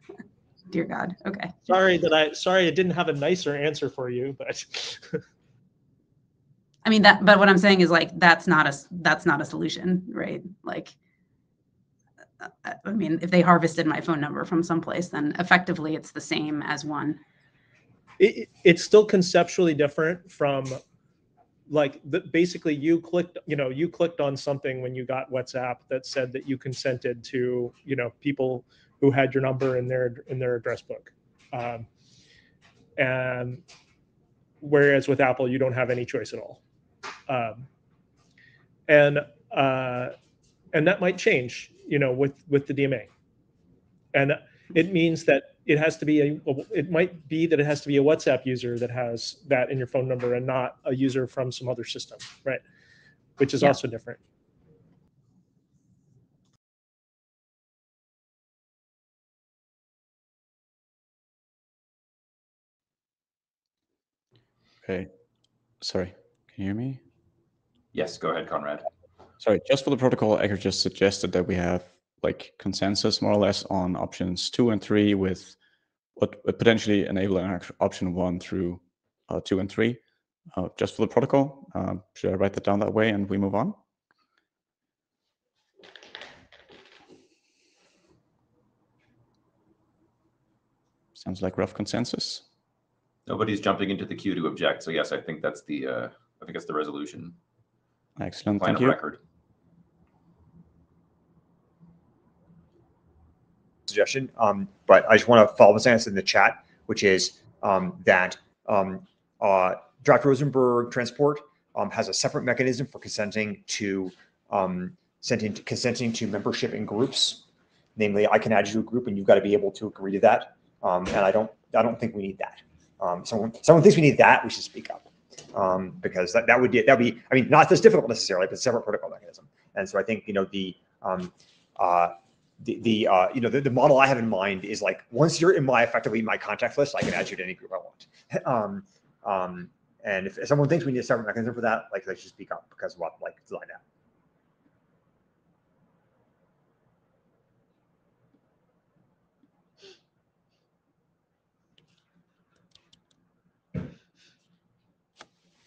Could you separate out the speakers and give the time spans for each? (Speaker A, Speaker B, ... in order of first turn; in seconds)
Speaker A: 0.7-1.6, 6.8-10.9, 12.4-17.2
Speaker B: 1.7-5.2, 18.2-20.8, 21.7-31.9, 33.0-33.6, 34.6-36.6, 37.3-37.6, 38.9-40.1, 40.7-43.1, 44.1-52.6, 53.4-54.2
Speaker C: 64.8-65.1, 65.8-67.0, 69.4-75.6, 76.1-83.8, 91.1-92.4, 98.2-99.0
Speaker D: 67.9-68.8, 93.3-97.3, 98.6-99.2
Speaker E: 103.9-117.4, 118.0-143.8